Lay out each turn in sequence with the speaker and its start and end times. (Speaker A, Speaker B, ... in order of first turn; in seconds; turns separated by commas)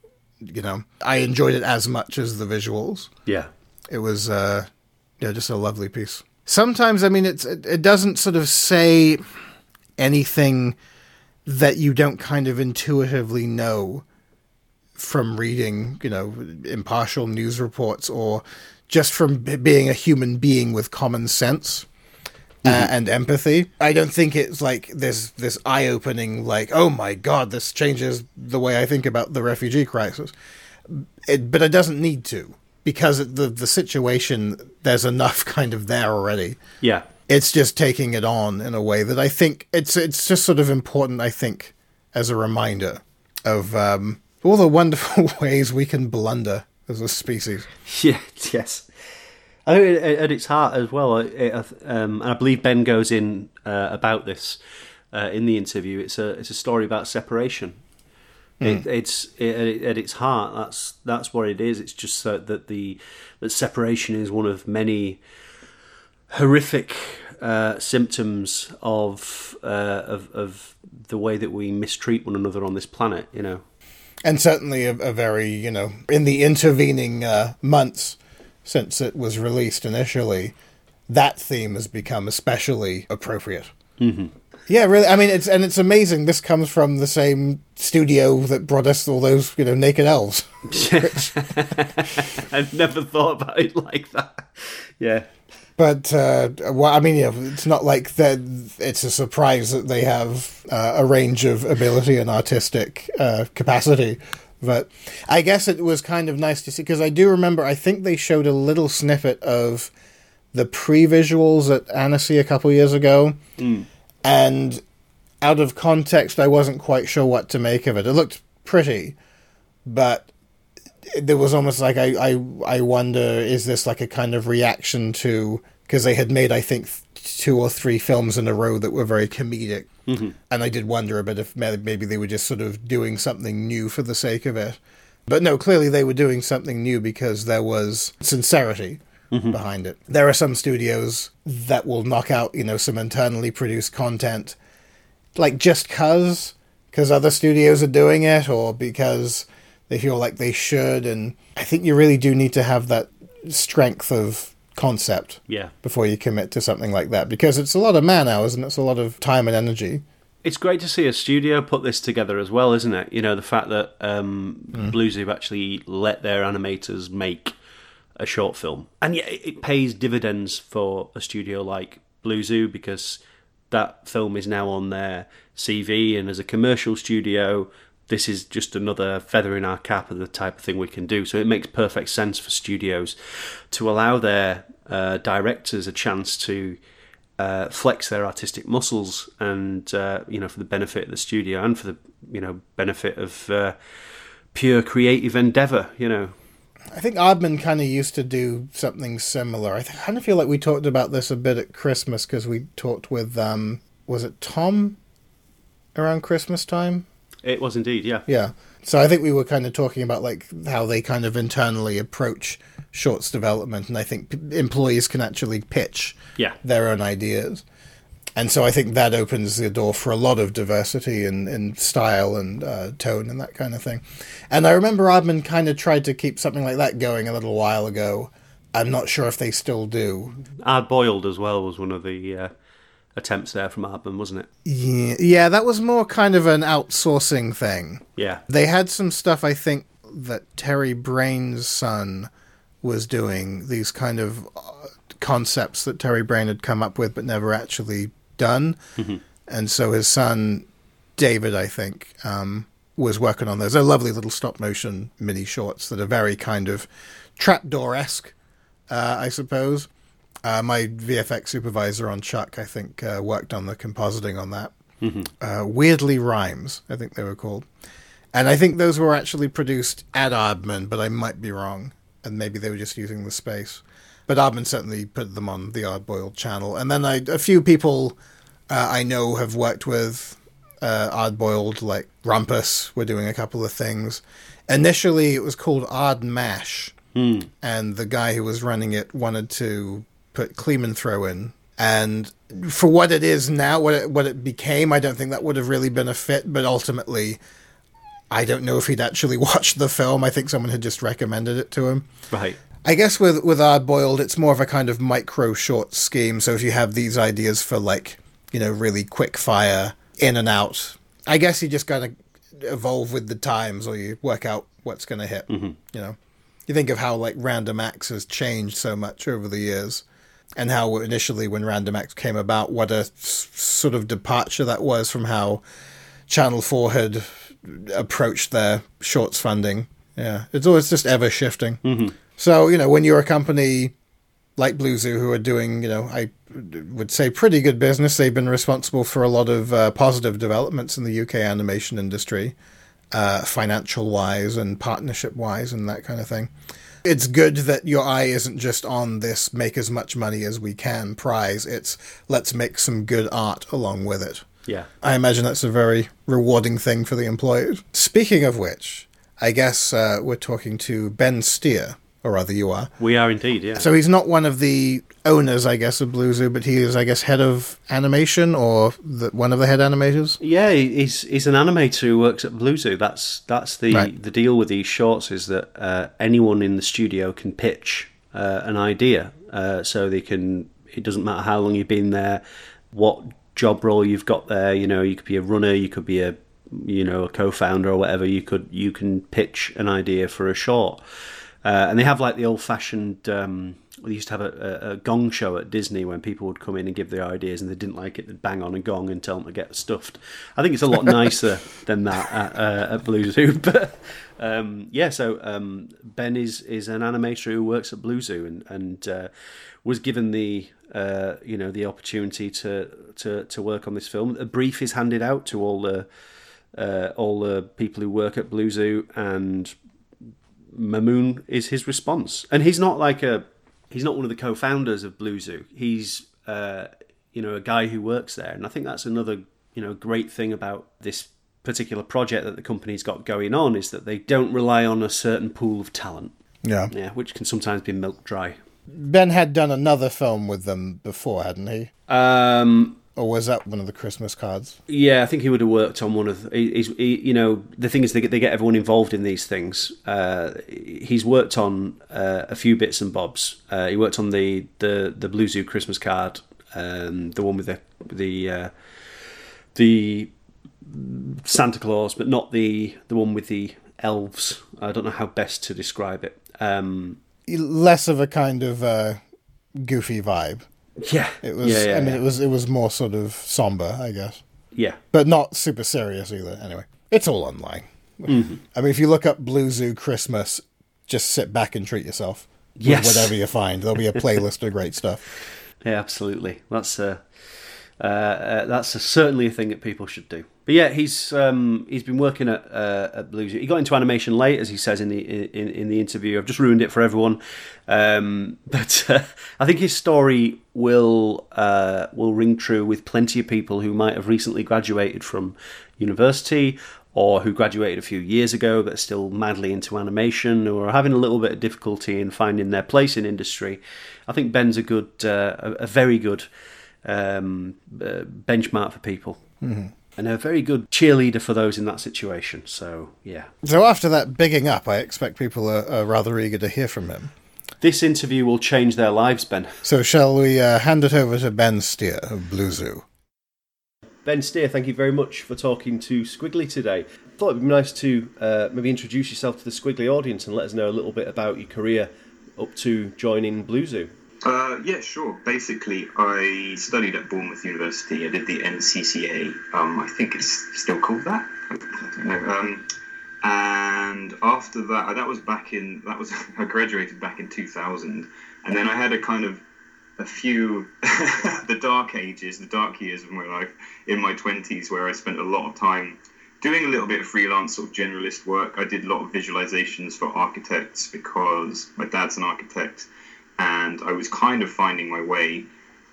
Speaker A: 0.4-3.1, Speaker A: 3.9-4.7, Speaker A: 5.2-9.2, Speaker A: 10.0-10.8, Speaker A: 11.5-14.0, Speaker A: 15.0-21.9, Speaker B: 22.6-22.9, Speaker A: 22.6-30.3, Speaker A: 30.9-36.6, Speaker B: 36.8-37.1, Speaker A: 37.3-47.7, Speaker B: 47.9-48.9, Speaker B: 49.6-54.6, Speaker B: 55.1-57.8, Speaker B: 58.6-65.2, Speaker B: 66.3-73.6, Speaker A: 74.2-80.5, Speaker A: 81.1-83.7, Speaker B: 84.0-84.3, Speaker A: 84.7-91.7, Speaker B: 90.7-95.3, Speaker A: 95.8-109.9, Speaker A: 110.5-113.4, Speaker B: 113.6-113.9, Speaker A: 114.2-114.8, Speaker A: 115.4-119.2, Speaker A: 119.9-120.3, Speaker A: 121.2-129.9, Speaker B: 130.1-130.3, Speaker A: 130.5-144.6, Speaker B: 139.3-139.6, Speaker A: 145.4-160.0, Speaker B: 155.5-155.7, Speaker B: 160.4-167.6, Speaker B: 168.2-186.8, Speaker B: 187.4-193.8, Speaker B: 194.5-196.3, Speaker A: 196.9-205.0, Speaker A: 205.9-207.1, Speaker B: 207.4-208.3, Speaker A: 208.3-217.6, Speaker A: 218.4-230.4, Speaker B: 230.6-232.5, Speaker B: 233.2-234.5, Speaker A: 234.7-242.3, Speaker B: 238.2-238.4, Speaker A: 242.8-248.8, Speaker A: 249.5-258.3, Speaker A: 258.9-259.9, Speaker A: 260.4-264.7, Speaker B: 265.0-265.3, Speaker A: 265.4-267.7, Speaker A: 268.3-278.2, Speaker A: 278.7-286.9, Speaker B: 287.1-287.5, Speaker A: 287.6-297.4, Speaker A: 298.3-302.1, Speaker B: 302.3-302.6, Speaker A: 302.8-316.2, Speaker B: 315.5-315.8, Speaker A: 316.7-320.0, Speaker A: 320.6-325.6, Speaker A: 326.3-331.8, Speaker B: 331.8-332.2, Speaker A: 332.4-333.9, Speaker A: 334.6-342.6, Speaker A: 343.1-346.5, Speaker A: 347.1-354.4, Speaker A: 355.0-362.9, Speaker B: 363.0-363.9, Speaker A: 363.8-370.4, Speaker B: 370.4-409.3, Speaker B: 409.8-416.1, Speaker B: 416.7-419.8, Speaker B: 420.7-436.3, Speaker A: 436.6-436.9, Speaker B: 436.9-438.6, Speaker A: 438.9-441.9, Speaker B: 442.1-443.0, Speaker A: 443.2-444.8, Speaker B: 444.9-467.2, Speaker A: 467.5-469.2, Speaker A: 469.8-470.7, Speaker B: 471.0-472.2, Speaker A: 471.4-474.4, Speaker A: 475.1-485.2, Speaker B: 478.3-478.6, Speaker B: 482.8-483.4, Speaker B: 485.8-516.5, Speaker B: 517.0-519.4, Speaker A: 519.6-519.9, Speaker B: 520.2-523.5, Speaker A: 523.6-527.3, Speaker B: 527.8-529.8, Speaker A: 529.8-533.0, Speaker B: 534.2-544.1, Speaker C: 544.4-552.9, Speaker C: 553.4-559.6, Speaker C: 560.2-575.7